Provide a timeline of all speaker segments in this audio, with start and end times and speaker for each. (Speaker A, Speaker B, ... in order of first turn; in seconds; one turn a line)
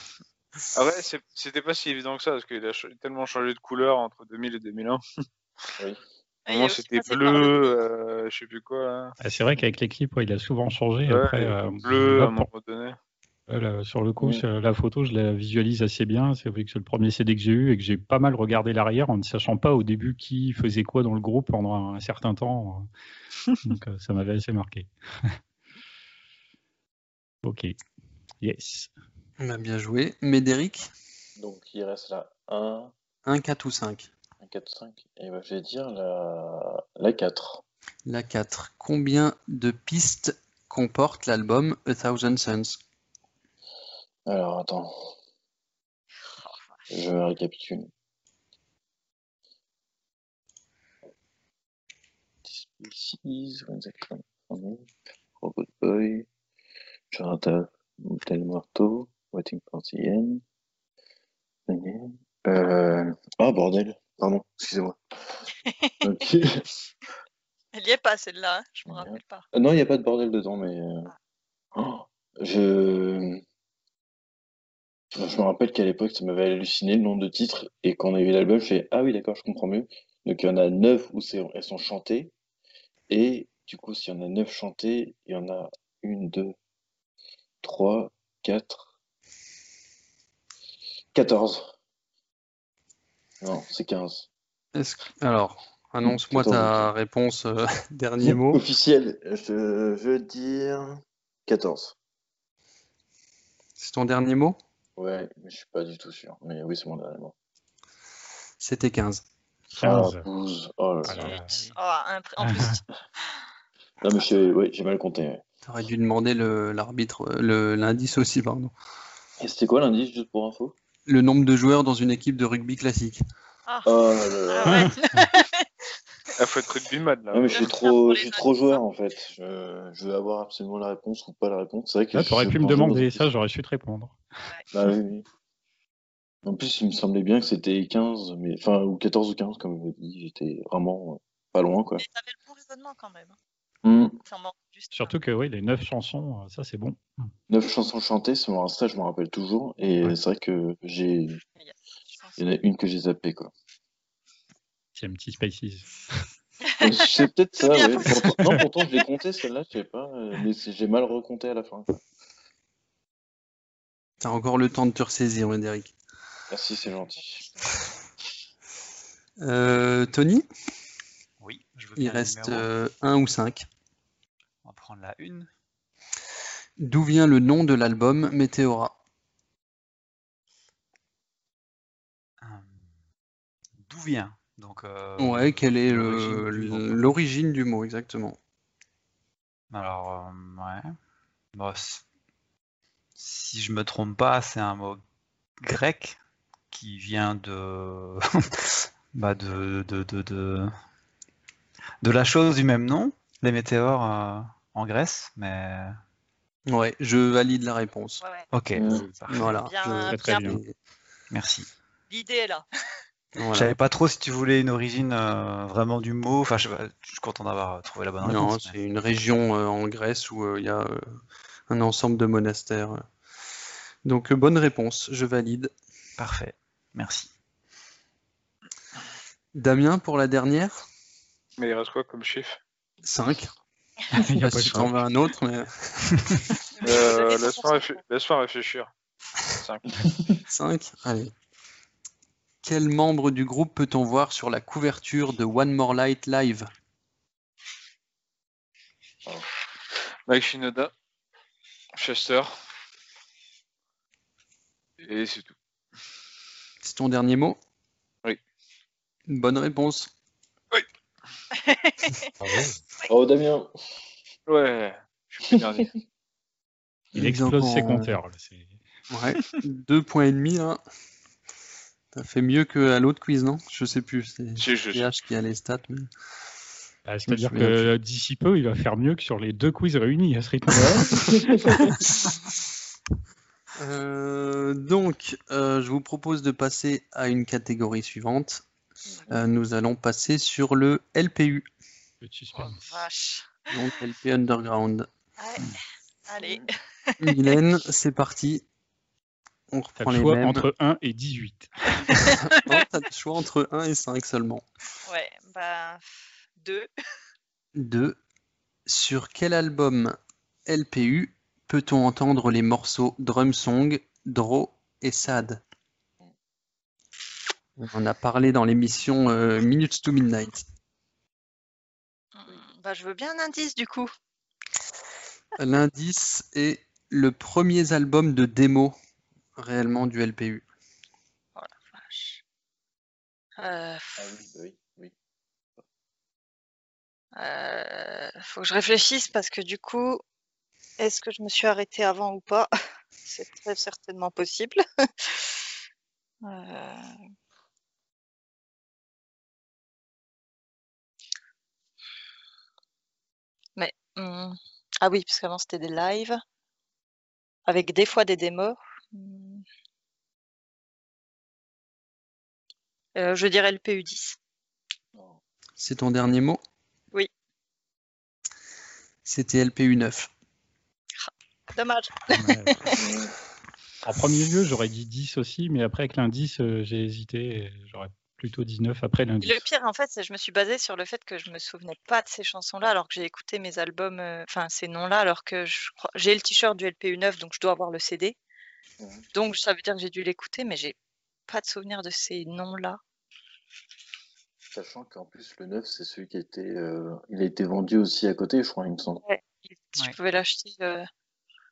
Speaker A: 0.7-5.0
Speaker B: 6.5-7.7
Speaker A: 6.5-9.2
Speaker C: 9.2-12.5
Speaker A: 11.1-13.0
Speaker C: 13.5-22.9
Speaker D: 14.2-14.4
Speaker C: 23.6-25.3
Speaker C: 27.4-27.8
Speaker C: 28.4-28.9
Speaker E: 29.4-30.9
Speaker D: 31.4-32.9
Speaker E: 33.2-34.1
Speaker D: 34.4-37.6
Speaker E: 38.1-42.8
Speaker D: 44.3-45.1
Speaker D: 46.9-47.9
Speaker D: 52.5-56.3
Speaker D: 57.1-60.4
Speaker D: 61.7-65.0
Speaker B: 65.7-66.3
Speaker D: 66.0-66.7
Speaker B: 67.7-69.5
Speaker D: 68.9-71.1
Speaker D: 71.7-73.4
Speaker D: 75.1-82.3
Speaker D: 83.1-86.6
Speaker D: 87.6-88.9
Speaker D: 91.1-91.7
Speaker D: 93.4-94.3
Speaker E: 94.8-98.6
Speaker D: 96.0-96.9
Speaker D: 98.2-102.0
Speaker E: 103.8-104.6
Speaker D: 105.0-107.3
Speaker E: 108.6-109.2
Speaker D: 109.8-111.4
Speaker C: 109.8-110.3
Speaker C: 111.0-111.6
Speaker B: 111.2-112.8
Speaker F: 111.3-111.8
Speaker C: 112.4-112.8
Speaker D: 114.0-115.4
Speaker E: 115.7-118.7
Speaker D: 119.4-120.8
Speaker E: 121.1-123.2
Speaker B: 123.7-125.7
Speaker D: 123.8-124.9
Speaker C: 124.7-125.3
Speaker A: 126.4-127.8
Speaker D: 127.3-133.3
Speaker B: 127.5-128.8
Speaker C: 132.1-134.2
Speaker D: 134.7-135.3
Speaker D: 136.4-142.0
Speaker B: 142.0-143.4
Speaker D: 143.8-144.2
Speaker B: 144.3-145.1
Speaker C: 144.9-147.0
Speaker D: 147.5-151.4
Speaker B: 151.6-152.4
Speaker D: 152.4-153.5
Speaker C: 154.9-155.9
Speaker B: 156.7-158.6
Speaker D: 156.8-162.0
Speaker E: 164.2-165.9
Speaker D: 166.5-167.5
Speaker E: 169.4-170.5
Speaker F: 171.4-172.7
Speaker E: 172.0-173.7
Speaker F: 174.6-175.5
Speaker E: 176.8-179.0
Speaker F: 182.4-182.8
Speaker F: 183.8-187.1
Speaker E: 185.2-188.4
Speaker F: 189.7-190.9
Speaker F: 191.6-192.0
Speaker F: 193.2-195.0
Speaker F: 195.6-196.2
Speaker F: 196.7-200.7
Speaker F: 202.0-206.0
Speaker E: 206.7-208.2
Speaker B: 208.2-208.5
Speaker F: 208.5-209.5
Speaker D: 208.8-209.1
Speaker E: 209.3-210.7
Speaker B: 209.7-210.6
Speaker C: 210.1-210.6
Speaker F: 211.3-211.7
Speaker B: 212.1-212.7
Speaker E: 213.4-213.7
Speaker F: 213.5-218.8
Speaker E: 218.2-221.2
Speaker E: 221.7-223.1
Speaker E: 224.1-225.7
Speaker F: 226.2-227.3
Speaker E: 229.6-230.9
Speaker A: 231.6-232.6
Speaker E: 233.0-233.5
Speaker C: 234.1-235.0
Speaker E: 234.2-236.2
Speaker B: 236.8-238.0
Speaker A: 236.8-238.9
Speaker A: 239.5-240.0
Speaker D: 240.1-240.4
Speaker E: 240.5-241.3
Speaker E: 242.6-246.7
Speaker A: 250.3-250.9
Speaker A: 251.9-252.6
Speaker A: 255.0-255.6
Speaker E: 256.8-257.6
Speaker E: 259.3-260.1
Speaker B: 261.5-262.3
Speaker C: 262.4-262.8
Speaker D: 263.1-263.7
Speaker A: 264.5-265.9
Speaker E: 267.1-268.2
Speaker C: 267.1-268.8
Speaker E: 269.1-270.8
Speaker E: 272.1-276.1
Speaker A: 274.6-275.1
Speaker C: 277.1-281.9
Speaker E: 277.3-277.9
Speaker D: 280.7-282.0
Speaker E: 283.8-288.6
Speaker E: 289.3-291.6
Speaker C: 292.2-293.0
Speaker B: 292.6-293.8
Speaker E: 293.7-295.1
Speaker B: 295.4-295.7
Speaker B: 296.3-297.6
Speaker E: 297.2-298.6
Speaker E: 299.7-300.7
Speaker C: 300.0-302.1
Speaker B: 302.0-302.9
Speaker E: 302.2-304.6
Speaker B: 305.1-306.9
Speaker E: 307.8-308.2
Speaker E: 308.9-315.6
Speaker E: 317.8-320.6
Speaker B: 322.4-324.1
Speaker E: 325.6-329.0
Speaker E: 329.6-330.6
Speaker B: 331.6-332.4
Speaker B: 333.6-334.3
Speaker D: 334.2-335.1
Speaker B: 337.4-340.2
Speaker B: 341.0-342.7
Speaker B: 343.2-345.6
Speaker B: 346.4-347.2
Speaker B: 353.8-356.4
Speaker B: 357.7-359.6
Speaker B: 363.2-364.4
Speaker E: 365.8-366.6
Speaker E: 369.2-370.3
Speaker B: 371.2-373.1
Speaker C: 372.3-373.0
Speaker D: 373.0-373.3
Speaker C: 374.1-379.6
Speaker B: 379.4-388.4
Speaker D: 389.0-389.2
Speaker B: 389.3-391.0
Speaker B: 391.5-393.0
Speaker D: 394.7-399.2
Speaker B: 399.2-401.1